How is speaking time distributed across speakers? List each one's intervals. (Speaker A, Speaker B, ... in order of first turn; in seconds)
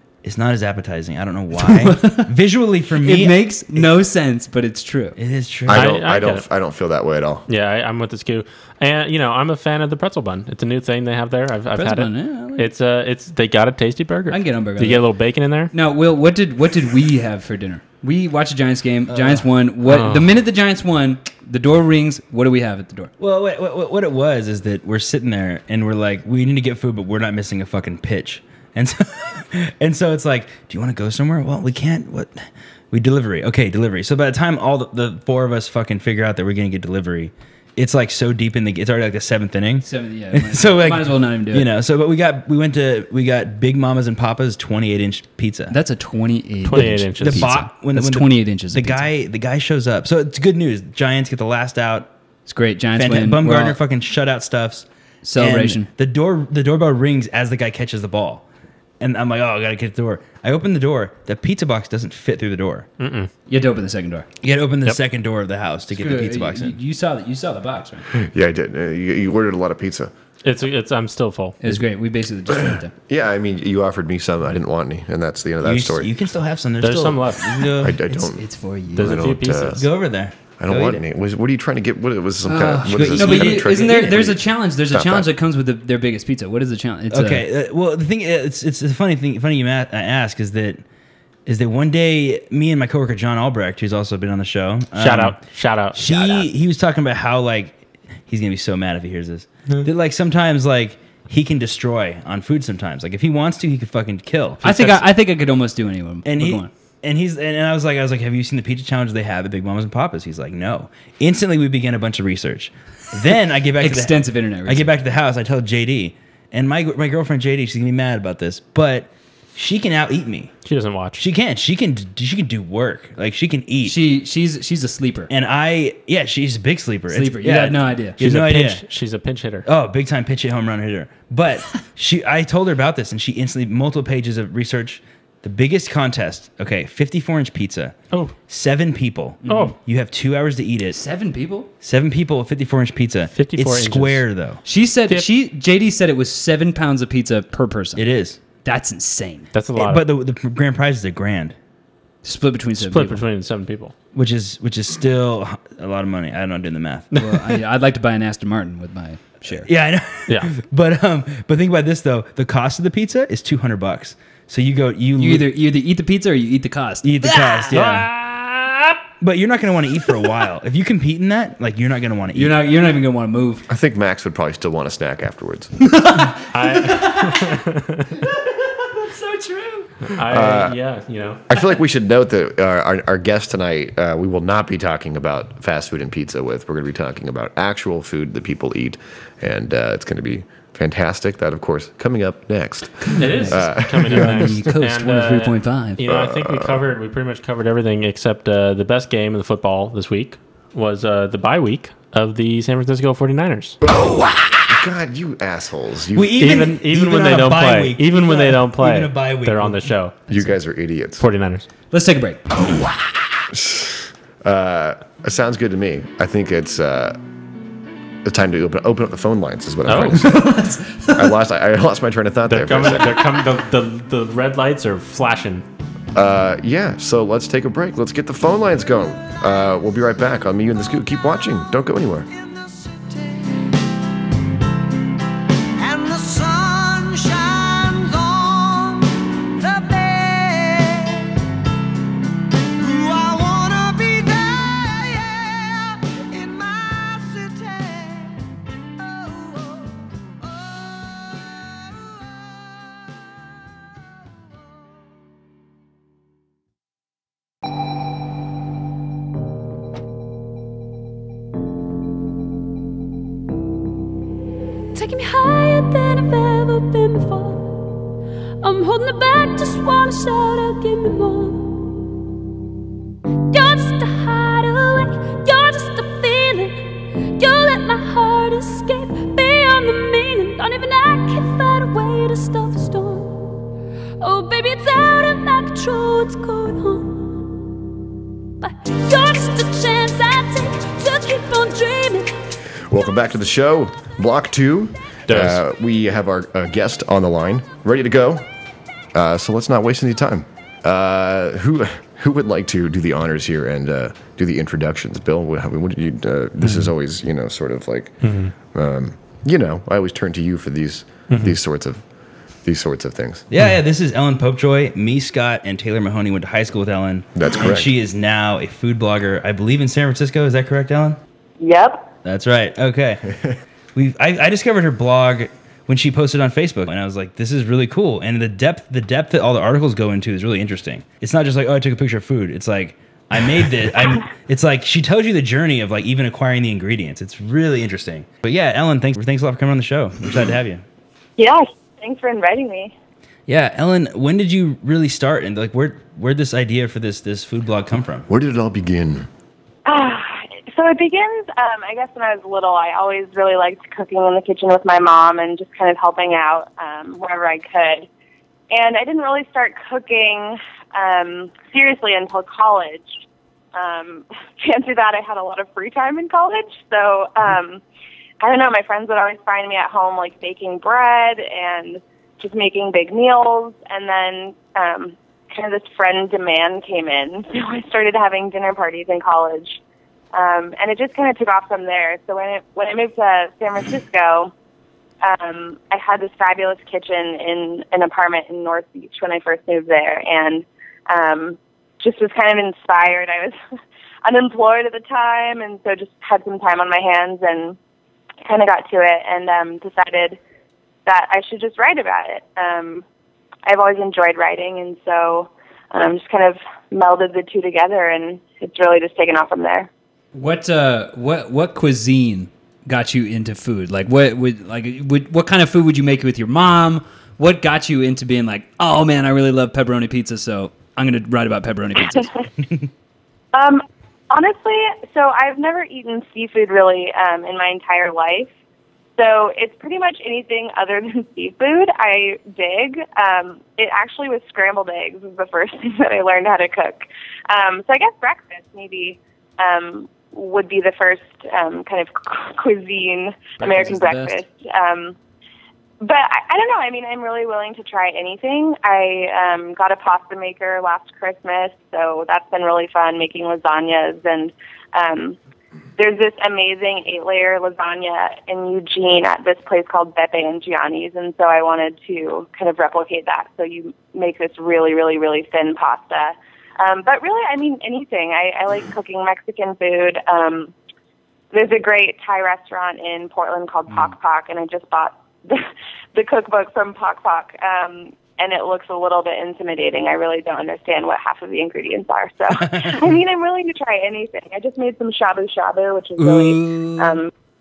Speaker A: 0.2-3.9, 5.2-5.9, 19.1-19.4, 23.2-45.8, 46.7-52.1, 53.0-58.5, 59.0-62.9, 64.4-66.8, 75.6-78.0, 79.7-81.0, 82.9-84.3, 87.1-90.8, 91.5-97.8, 98.3-104.6, 106.2-120.5, 121.2-124.0, 125.3-128.8, 129.7-137.9, 138.5-141.0, 141.8-144.6, 148.0-148.4, 149.8-151.6, 154.1-157.1, 159.6-165.5, 167.0-168.1, 169.2-172.6, 206.2-209.9, 313.5-321.2, 322.2-323.2, 323.9-340.8, 343.5-348.3, 482.5-483.0
Speaker B: 1.6-2.3, 3.0-5.2, 11.8-12.7, 14.3-15.1, 15.7-23.1, 39.8-41.7, 45.7-49.1, 52.5-53.8, 55.2-55.9, 63.5-64.3, 65.9-68.1, 71.6-72.9, 78.1-79.2, 82.5-87.5, 104.6-106.7, 113.8-114.9, 123.8-125.3, 127.1-128.2, 139.4-139.8, 140.9-141.7, 144.7-148.0, 148.6-149.5, 152.2-153.2, 157.1-159.7, 165.2-168.0, 172.3-173.7, 175.8-177.6, 178.2-179.9, 193.1-196.0, 211.9-212.7, 220.0-221.3, 410.3-422.3, 443.6-444.4, 486.2-487.2
Speaker C: 5.7-7.5, 68.1-70.1, 72.7-76.1, 77.8-78.4, 79.0-79.8, 80.6-85.3, 173.7-175.7, 180.3-180.8, 181.5-194.5, 196.1-196.8, 203.9-204.2, 204.7-206.5, 210.3-211.2, 213.5-217.2, 218.2-220.6, 221.1-223.5, 226.2-232.3, 292.9-298.5, 299.1-312.0, 312.6-313.4, 317.4-317.9, 348.3-349.3
Speaker D: 5.7-6.5, 7.5-15.7, 19.9-20.3, 46.6-47.6, 63.0-63.3, 70.4-71.8, 76.8-77.7, 79.0-79.8, 95.0-96.5, 104.6-105.1, 120.7-121.2, 128.2-129.7, 139.5-139.8, 143.3-144.2, 149.5-150.1, 152.8-153.9, 167.7-168.1, 176.5-177.7, 180.1-181.4, 193.2-203.8, 206.4-210.2, 211.2-211.7, 219.9-220.2, 222.5-225.7, 295.3-295.6, 308.2-308.5, 311.3-311.6
Speaker E: 232.3-233.7, 235.8-241.3, 242.8-252.4
Speaker F: 264.9-267.8, 268.6-271.9, 273.5-276.8, 277.4-283.6, 284.2-287.5, 288.6-292.3
Speaker G: 321.6-322.1, 341.4-342.9, 349.9-358.1, 358.7-363.2, 363.7-367.8, 368.4-379.8, 380.3-384.5, 385.2-393.6, 394.2-397.8, 398.4-400.4, 401.1-403.1, 403.7-409.9, 423.5-428.5, 429.2-445.2, 446.0-455.4, 456.0-470.7, 471.5-487.3